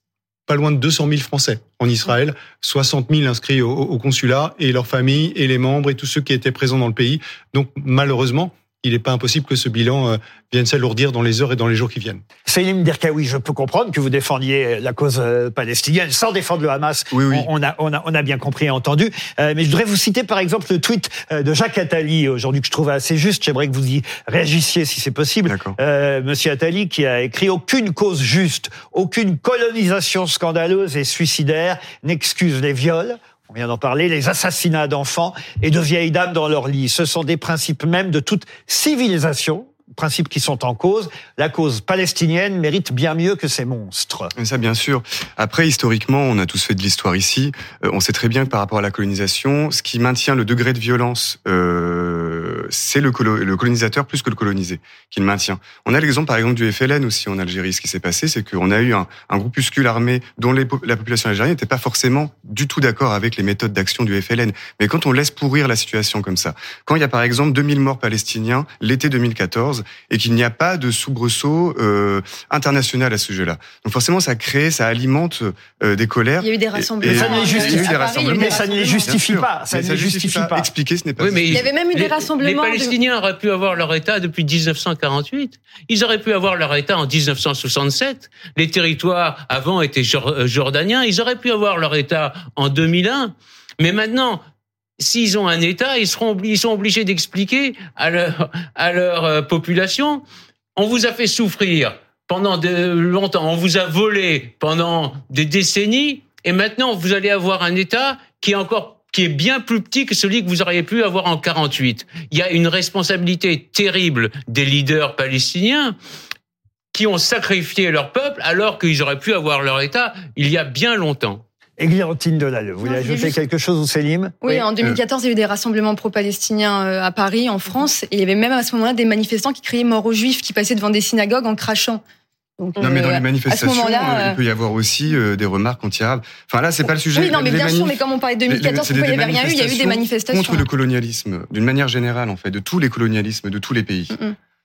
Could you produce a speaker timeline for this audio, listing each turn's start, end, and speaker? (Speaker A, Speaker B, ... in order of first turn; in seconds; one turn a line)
Speaker A: 0.5-12.2
Speaker B: 12.5-44.3
Speaker C: 17.1-17.5
Speaker C: 25.5-25.8
Speaker C: 44.4-81.7
Speaker D: 76.4-79.2
Speaker B: 77.0-80.7
Speaker E: 81.2-94.4
Speaker D: 81.5-83.0
Speaker E: 95.0-100.2
Speaker E: 100.8-116.0
Speaker E: 116.9-121.4
Speaker B: 121.8-124.7
Speaker D: 122.8-123.4
Speaker D: 124.4-132.0
Speaker D: 132.6-134.4
Speaker C: 132.8-144.2
Speaker D: 137.2-140.7